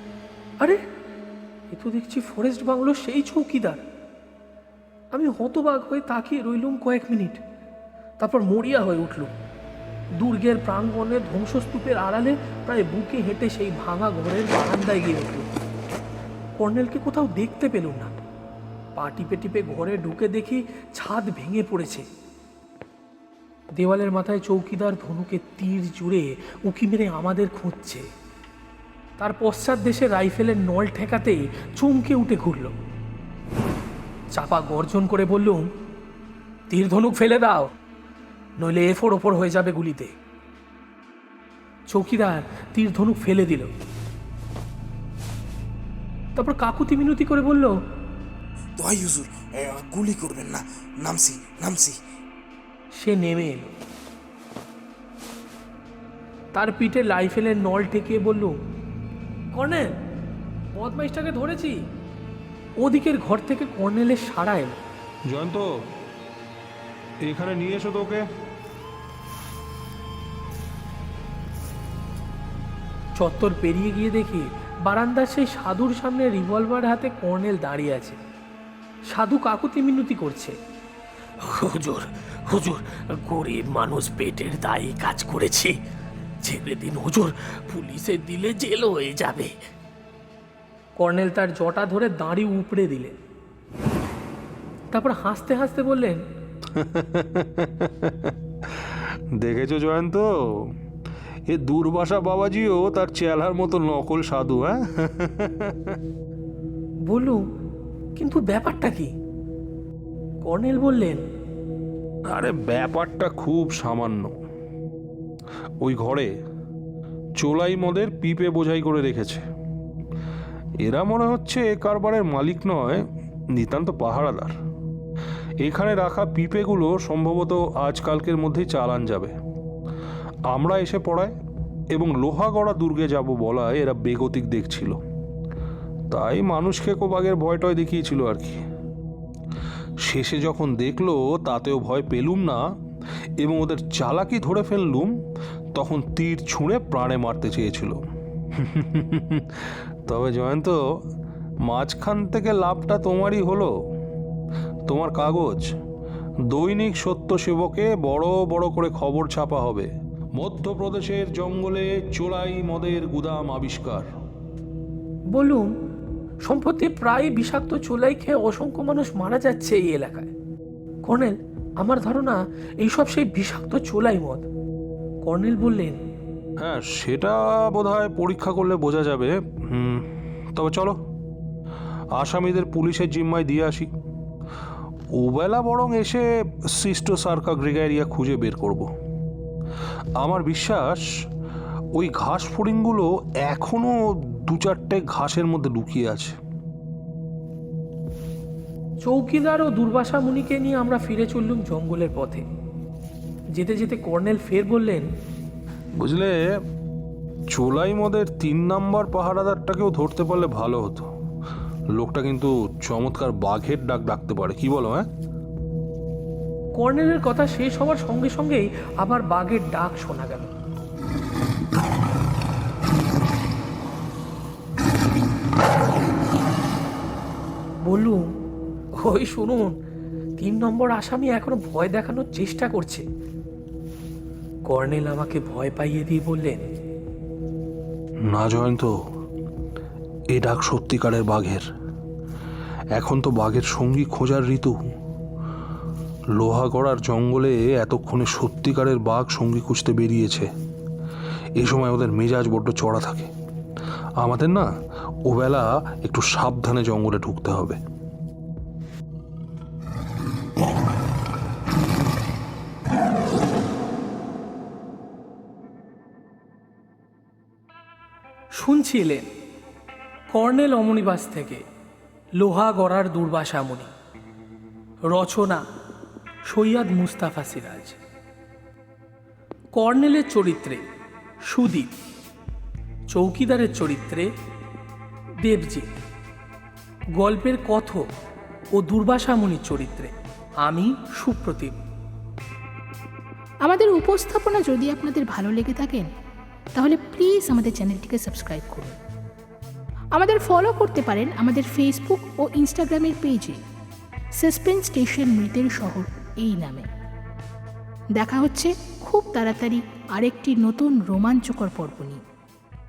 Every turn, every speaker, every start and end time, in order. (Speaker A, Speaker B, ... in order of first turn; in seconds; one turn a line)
Speaker A: 1.7-3.8
Speaker A: 5.1-7.4
Speaker A: 8.2-9.3
Speaker A: 10.2-15.5
Speaker A: 16.6-18.1
Speaker A: 19.0-22.1
Speaker A: 23.8-28.1
Speaker A: 29.2-32.8
Speaker A: 34.4-35.7
Speaker A: 36.7-37.7
Speaker A: 38.6-40.1
Speaker A: 41.9-43.7
Speaker A: 46.4-47.7
Speaker B: 48.8-52.0
Speaker A: 53.0-53.8
Speaker A: 56.5-58.6
Speaker A: 59.5-59.9
Speaker A: 60.8-61.8
Speaker A: 62.8-64.8
Speaker C: 65.3-65.7
Speaker C: 67.2-68.3
Speaker A: 73.2-78.2
Speaker A: 79.1-80.6
Speaker D: 81.6-85.7
Speaker D: 86.5-87.3
Speaker A: 87.8-88.4
Speaker D: 87.9-89.5
Speaker A: 91.0-93.1
Speaker A: 94.9-96.2
Speaker C: 96.7-100.7
Speaker C: 101.5-106.0
Speaker A: 107.1-107.4
Speaker A: 108.2-109.1
Speaker A: 110.4-111.2
Speaker C: 112.3-114.4
Speaker C: 115.8-116.3
Speaker C: 117.4-119.4
Speaker C: 120.8-124.6
Speaker C: 125.6-129.3
Speaker C: 130.5-131.3
Speaker C: 131.9-135.0
Speaker C: 136.1-138.6
Speaker C: 140.0-142.6
Speaker C: 143.4-145.1
Speaker C: 145.8-148.0
Speaker C: 148.5-150.8
Speaker C: 151.6-153.8
Speaker C: 154.9-155.7
Speaker C: 156.5-164.1
Speaker A: 165.3-165.7
Speaker A: 166.4-170.3
Speaker A: 171.1-174.5
Speaker A: 175.2-176.0
Speaker C: 176.6-181.0
Speaker C: 182.1-183.9
Speaker C: 185.2-188.9
Speaker C: 190.2-191.1
Speaker C: 191.9-196.4
Speaker A: 199.1-202.4
Speaker A: 203.6-205.1
Speaker C: 206.0-206.6
Speaker C: 207.5-211.1
Speaker C: 211.9-215.1
Speaker A: 216.8-220.5
Speaker A: 227.9-228.3
Speaker A: 229.0-229.8
Speaker A: 230.4-233.0
Speaker A: 234.7-236.7
Speaker C: 238.3-238.9
Speaker C: 240.3-241.7
Speaker C: 242.9-244.9
Speaker C: 246.4-250.5
Speaker C: 251.6-253.3
Speaker C: 254.2-254.7
Speaker C: 255.2-257.8
Speaker A: 268.6-269.3
Speaker A: 270.3-271.6
Speaker A: 272.4-273.9
Speaker A: 275.1-275.6
Speaker A: 276.5-278.0
Speaker A: 279.8-280.8
Speaker A: 281.5-281.9
Speaker A: 283.1-284.3
Speaker A: 285.4-285.9
Speaker A: 287.2-288.0
Speaker A: 288.8-290.1
Speaker A: 290.6-291.8
Speaker E: 293.6-296.1
Speaker E: 296.8-299.0
Speaker E: 300.1-303.6
Speaker E: 304.4-306.9
Speaker E: 308.1-312.2